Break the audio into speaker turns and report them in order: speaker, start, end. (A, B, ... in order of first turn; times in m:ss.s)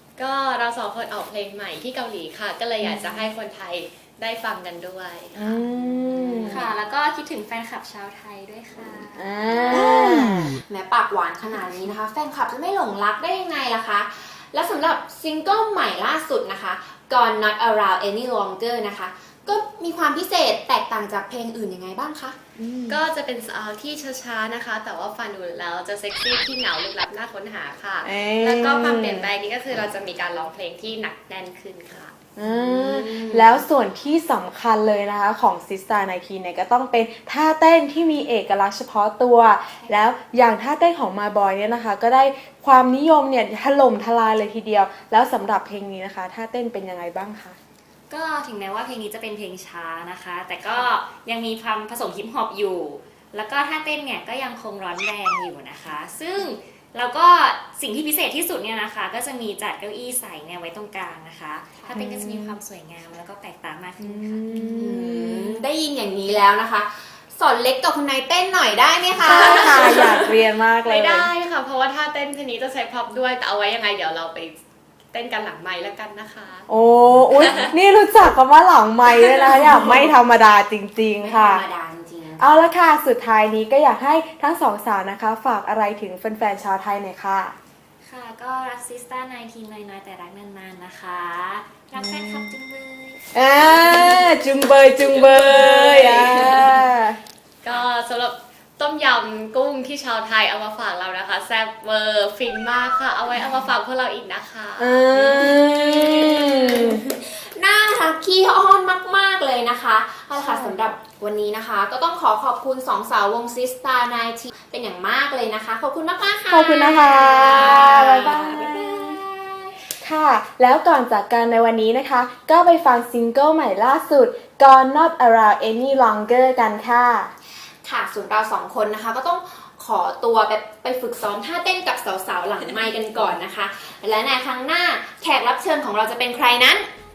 0:00.2-0:05.8 A
0:05.3-0:06.7 B
0:06.4-0:09.8 C
0:09.1-0:10.5 B
0:09.7-0:22.4 D
0:22.6-0:23.0 B
0:22.9-0:32.1 A
0:28.0-0:29.3 B
0:32.4-0:47.6 B
0:32.4-0:33.6 D
0:48.1-1:04.7 C
1:01.9-1:02.6 B
1:04.0-1:05.6 B
1:04.5-1:10.1 D
1:09.2-1:11.3 B
1:09.4-1:10.2 A
1:10.8-1:14.6 A
1:15.1-1:16.7 A
1:16.7-1:21.6 B
1:17.3-1:17.7 A
1:19.1-1:19.7 A
1:21.2-1:22.7 D
1:22.4-1:27.5 B
1:28.0-1:33.2 C
1:32.0-1:32.5 B
1:33.3-1:37.2 B
1:33.8-1:34.2 C
1:35.3-1:35.8 C
1:36.2-1:36.4 A
1:37.6-1:45.0 A
1:44.8-1:47.0 B
1:45.1-1:59.7 D
1:50.4-1:50.8 B
1:56.5-1:58.9 B
2:00.0-2:07.3 B
2:07.8-2:16.9 D